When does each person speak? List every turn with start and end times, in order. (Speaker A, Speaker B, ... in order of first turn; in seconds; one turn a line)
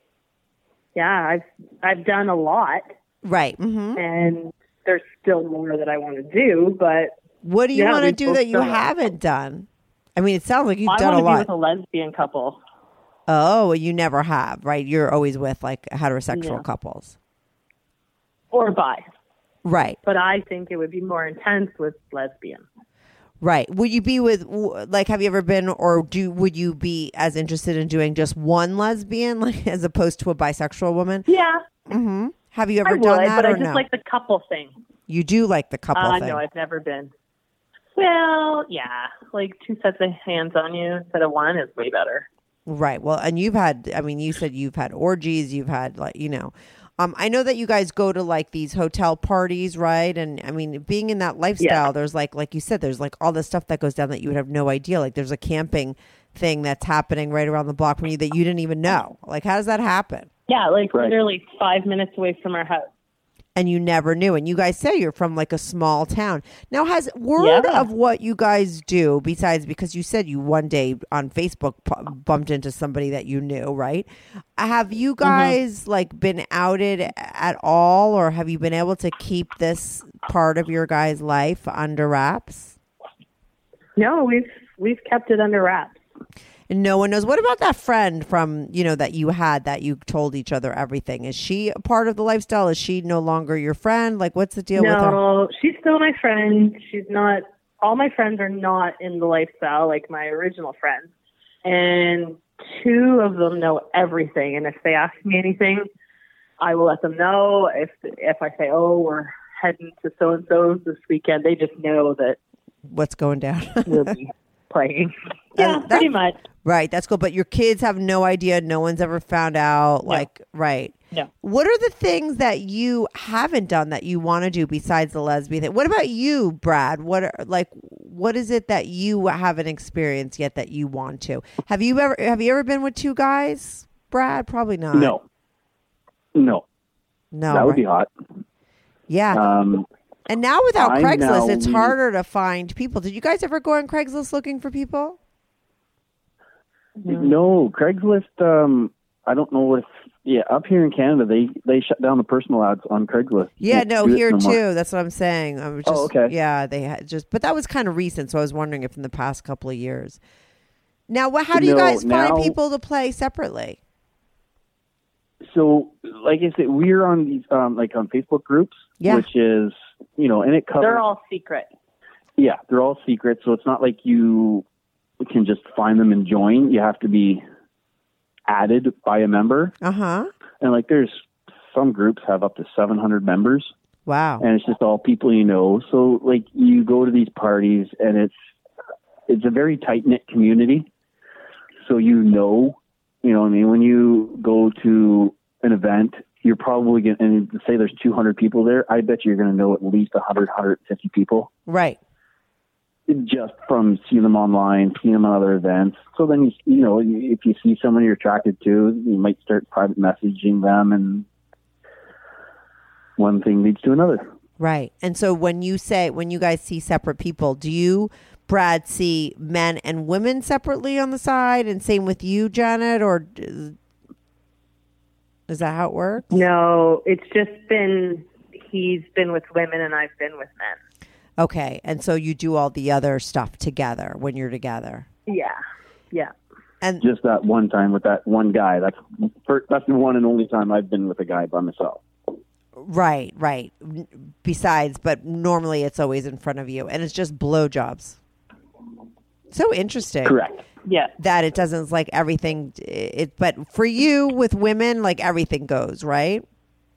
Speaker A: 0.9-2.9
Speaker B: 3.2-4.0
Speaker A: 4.0-7.1
Speaker B: 7.4-11.5
Speaker A: 7.7-8.8
Speaker A: 10.9-12.6
Speaker B: 13.3-17.2
Speaker A: 16.3-16.6
Speaker A: 18.5-19.1
Speaker B: 19.6-20.0
Speaker A: 20.1-22.6
Speaker B: 23.4-31.3
Speaker A: 31.3-31.6
Speaker B: 31.9-33.9
Speaker A: 32.8-34.7
Speaker B: 35.1-36.4
Speaker A: 35.9-37.1
Speaker A: 38.0-42.3
Speaker B: 42.7-60.3
Speaker A: 51.6-51.8
Speaker A: 60.5-62.9
Speaker B: 63.5-82.7
Speaker A: 67.4-67.9
Speaker A: 75.2-75.5
Speaker A: 84.0-86.0
Speaker B: 86.7-95.2
Speaker A: 94.8-101.1
Speaker A: 101.6-105.9
Speaker A: 106.6-112.4
Speaker B: 112.9-114.1
Speaker A: 113.9-116.4
Speaker B: 115.5-116.1
Speaker B: 116.6-135.1
Speaker C: 134.9-135.2
Speaker C: 136.3-136.6
Speaker B: 137.3-137.8
Speaker C: 137.5-138.1
Speaker B: 139.1-139.4
Speaker C: 139.3-139.8
Speaker B: 140.3-145.2
Speaker C: 140.8-141.9
Speaker A: 147.0-147.3
Speaker C: 147.1-154.6
Speaker B: 153.6-160.2
Speaker C: 155.9-156.3
Speaker B: 161.1-163.8
Speaker C: 161.5-162.6
Speaker C: 165.4-171.0
Speaker B: 169.0-169.3
Speaker A: 170.8-171.7
Speaker C: 172.4-174.6
Speaker C: 175.2-177.4
Speaker C: 178.5-179.7
Speaker B: 179.8-180.3
Speaker C: 180.6-183.7
Speaker B: 184.1-184.4
Speaker C: 184.4-188.3
Speaker C: 189.3-190.9
Speaker C: 191.8-201.5
Speaker B: 201.7-202.0
Speaker C: 203.1-211.3
Speaker C: 213.2-214.2
Speaker B: 214.6-223.8
Speaker B: 225.5-226.4
Speaker A: 226.3-230.8
Speaker B: 231.4-235.1
Speaker A: 235.3-235.6
Speaker C: 237.0-242.0
Speaker B: 242.8-248.2
Speaker B: 249.5-250.4
Speaker C: 250.2-250.6
Speaker A: 250.9-251.1
Speaker B: 251.2-256.4